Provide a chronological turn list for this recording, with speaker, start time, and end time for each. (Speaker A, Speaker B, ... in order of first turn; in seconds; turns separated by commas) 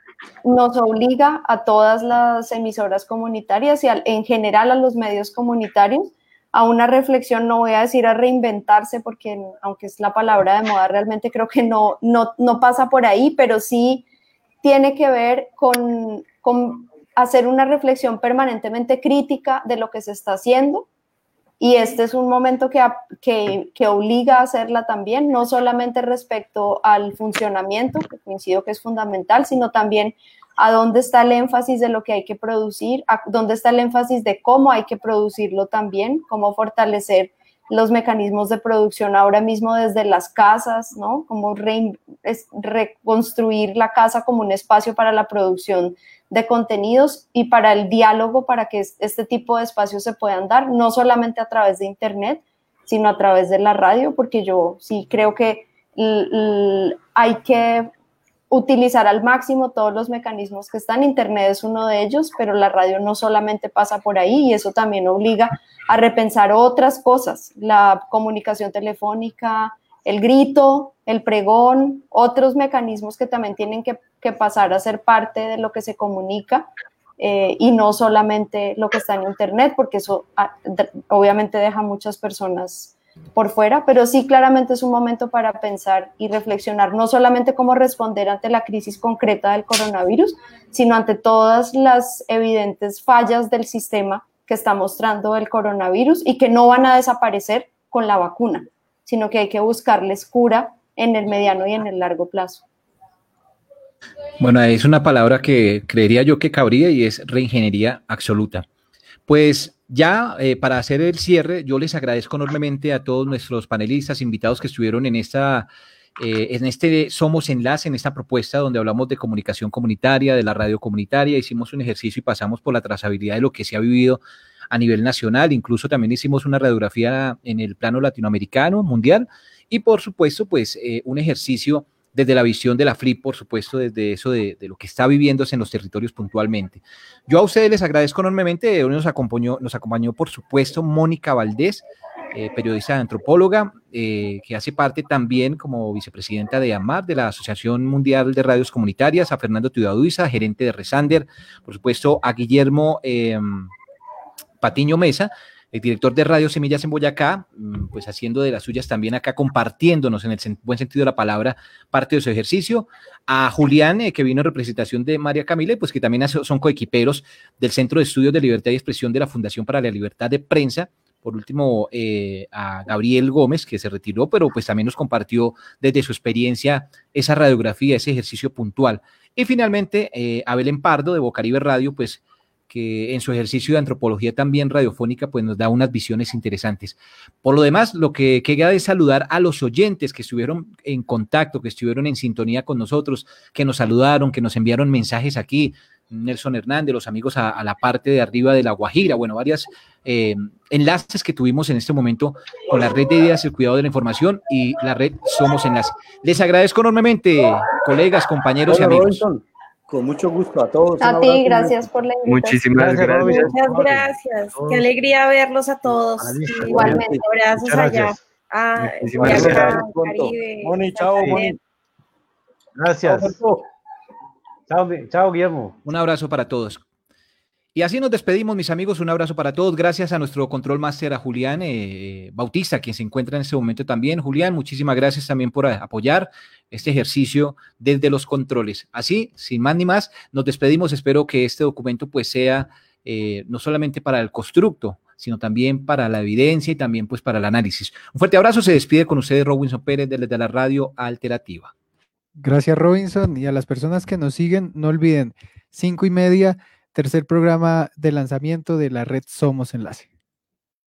Speaker A: 0.4-14.0, Speaker A: 14.6-20.9, Speaker A: 21.6-57.9, Speaker A: 58.5-102.7, Speaker B: 104.4-108.7, Speaker B: 109.3-115.7, Speaker B: 116.2-153.7, Speaker B: 154.6-209.2, Speaker C: 208.7-211.9, Speaker A: 211.0-212.6, Speaker D: 212.3-213.5, Speaker E: 212.8-214.9, Speaker F: 213.3-221.6, Speaker E: 216.2-218.2, Speaker A: 216.7-217.2, Speaker C: 216.8-217.0, Speaker D: 218.9-219.6, Speaker E: 219.2-219.8, Speaker C: 219.2-221.6, Speaker E: 221.2-221.4, Speaker E: 222.8-223.4, Speaker C: 223.1-223.6, Speaker E: 224.7-225.8, Speaker B: 225.8-226.8, Speaker B: 227.8-251.7, Speaker G: 252.4-260.1